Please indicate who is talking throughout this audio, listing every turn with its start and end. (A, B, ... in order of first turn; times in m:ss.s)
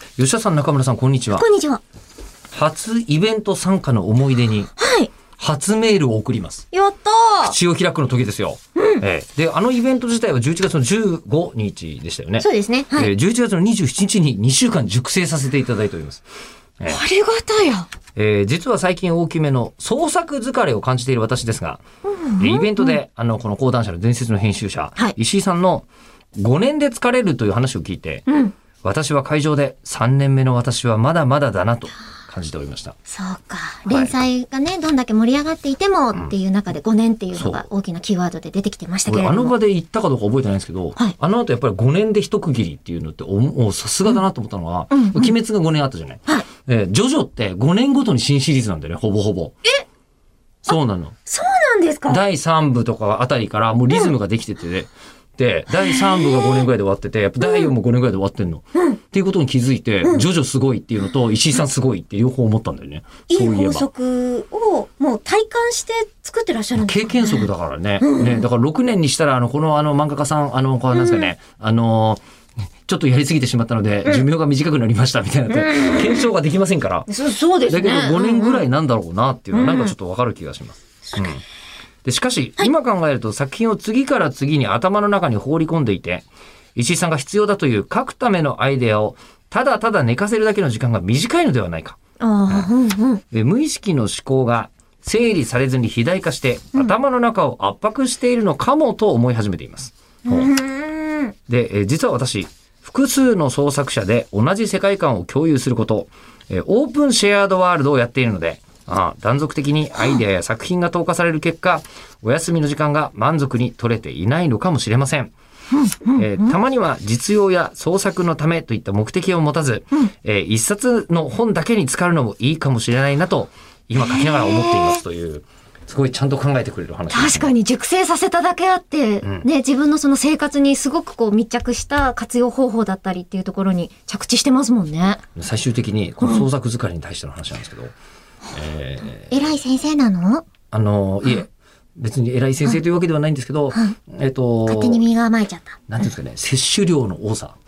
0:00.2-0:01.4 A
0:01.3-0:01.8 B
0:02.5-0:04.7 A
0:04.8-0:05.1 B
0:05.4-0:06.6 A
0:06.7-0:07.5 B
0:07.4-0:16.2 A
0:08.8-0:09.0 B
0:12.4-0:13.1 B
0:16.9-0:17.9 B
0:18.1-0:21.8 A
0:22.1-0:23.0 B
0:22.4-0:28.3 A
0:28.3-0:28.5 B
0:28.8-0:32.9 A
0:33.1-0:39.5 B
0:33.9-0:34.2 A
0:37.3-0:37.6 A
0:39.1-0:49.5 A
0:44.9-0:45.4 B
0:50.6-0:51.1 A
0:51.3-0:52.2 B
0:52.1-1:03.9 A
0:55.7-0:56.7 B
0:57.4-0:57.7 B
1:03.3-1:07.5 B
1:06.7-1:12.2 A
1:08.0-1:08.4 B
1:10.9-1:11.3 B
1:12.8-1:17.1 A
1:15.5-1:16.2 B
1:17.1-1:18.6 B
1:17.7-1:21.4 A
1:19.5-1:19.9 B
1:22.0-1:32.0 A
1:32.2-1:33.2 B
1:33.3-1:40.5 A
1:40.2-1:41.3 B
1:41.5-1:55.3 A
1:55.7-1:56.6 B
1:56.2-2:07.5 A
2:04.0-2:05.0 B
2:07.1-2:15.2 B
2:15.3-2:17.9 A
2:16.2-2:16.4 B
2:18.5-2:19.6 A
2:19.3-2:20.4 B
2:20.7-2:25.0 A
2:24.7-2:25.8 B
2:25.9-2:27.6 A